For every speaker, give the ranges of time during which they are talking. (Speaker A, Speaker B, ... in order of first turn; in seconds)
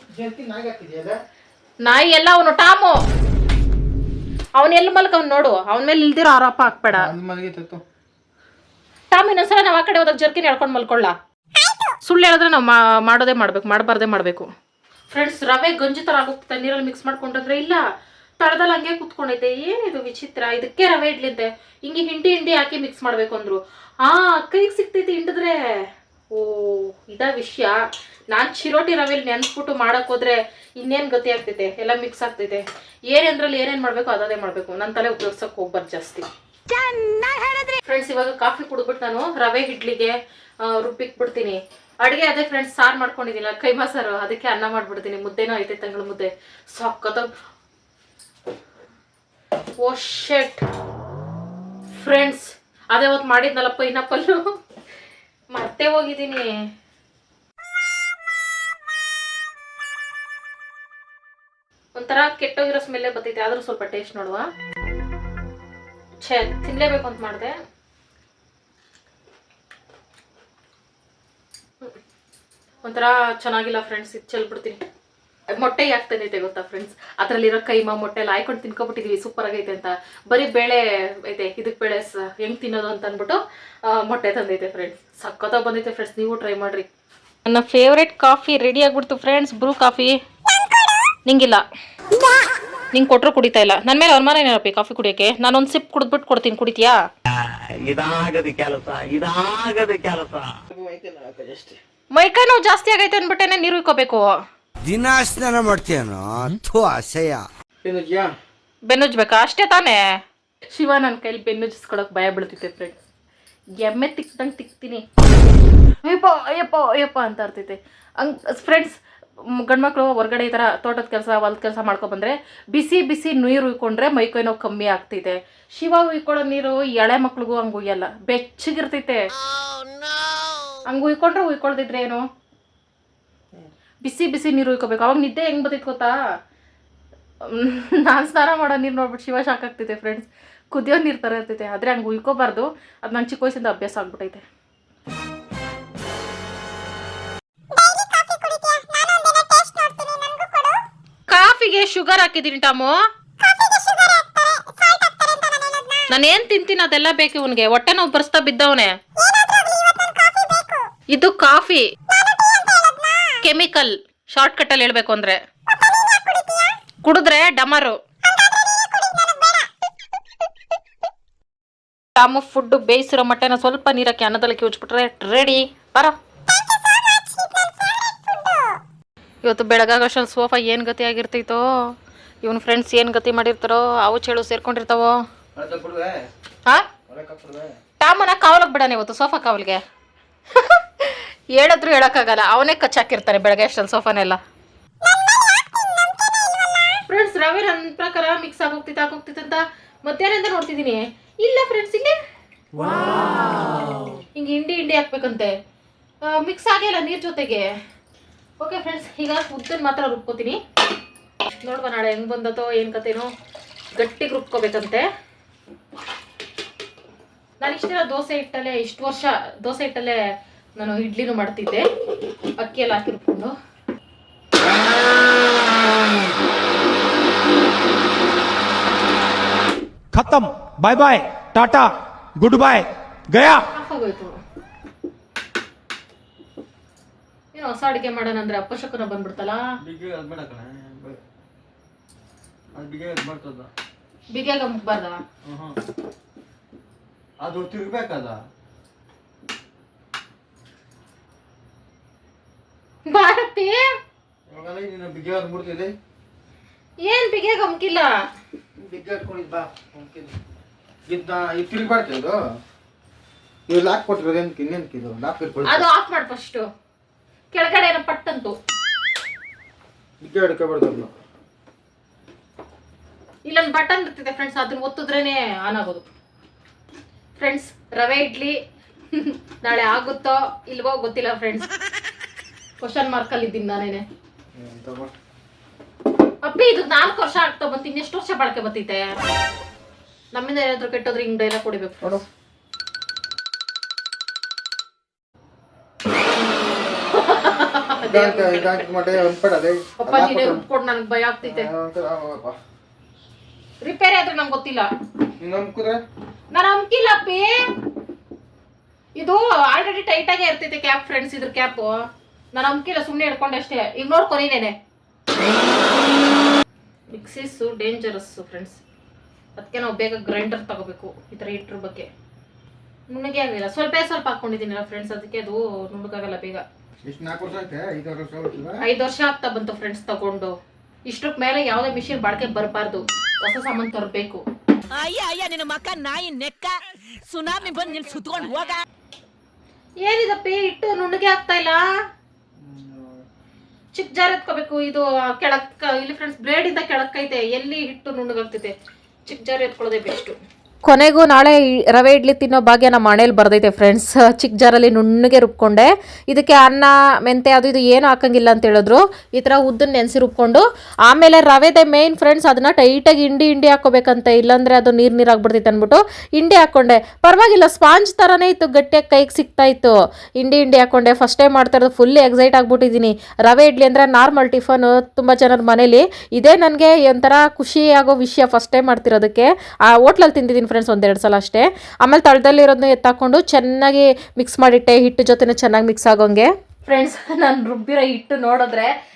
Speaker A: 0.1-1.2, 6.9-7.8, 100.7-101.8, 107.8-108.3, 185.5-186.2, 187.1-187.7, 239.8-241.2, 242.7-243.7, 245.4-245.7, 247.4-248.4, 254.5-255.9, 258.8-260.3, 261.1-262.4, 263.7-265.9, 270.2-271.1, 284.5-285.1, 298.1-300.6, 301.4-302.6, 305.4-306.0, 327.0-328.8, 342.6-343.2
Speaker B: 1.8-3.0, 4.6-7.1, 9.1-11.2, 12.0-14.4, 15.1-17.8, 18.4-25.6, 26.3-27.7, 28.3-36.2, 37.8-47.3, 49.8-50.6, 52.0-54.4, 55.5-56.5, 62.0-64.4, 66.2-67.5, 72.8-74.8, 75.5-86.9, 87.5-90.1, 91.2-91.6, 92.9-97.0, 102.1-104.2, 108.9-110.0, 110.7-113.0, 113.8-115.0, 116.0-118.9, 119.5-129.2, 130.9-132.2, 134.0-136.1, 137.4-144.4, 151.3-152.9, 156.1-158.9, 161.1-161.8, 163.4-165.4, 167.0-168.0, 172.2-176.1, 179.4-181.6, 182.4-185.1, 188.0-189.8, 190.5-194.4, 197.1-202.2, 203.2-203.6, 204.3-205.5, 206.2-207.7, 208.6-210.6, 211.6-213.3, 214.0-215.1, 217.6-220.2, 220.8-221.8, 222.6-223.5, 233.7-234.4, 237.5-239.6, 244.3-245.2, 253.1-253.8, 257.0-258.1, 265.6-266.6, 267.5-268.6, 273.4-276.1, 277.4-278.6, 279.1-281.7, 282.8-284.0, 286.4-289.1, 290.3-292.2, 297.1-298.9, 300.0-301.7, 303.8-304.9, 306.5-307.6, 309.2-312.0, 312.5-314.8, 317.1-318.8, 319.6-322.1, 323.1-326.6, 328.8-330.5, 331.1-334.4, 340.0-341.8, 343.9-348.7, 349.3-388.9
Speaker C: 36.7-37.8, 334.9-336.7, 337.3-338.8
Speaker D: 97.8-100.4
Speaker E: 104.9-107.4
Speaker F: 230.1-233.6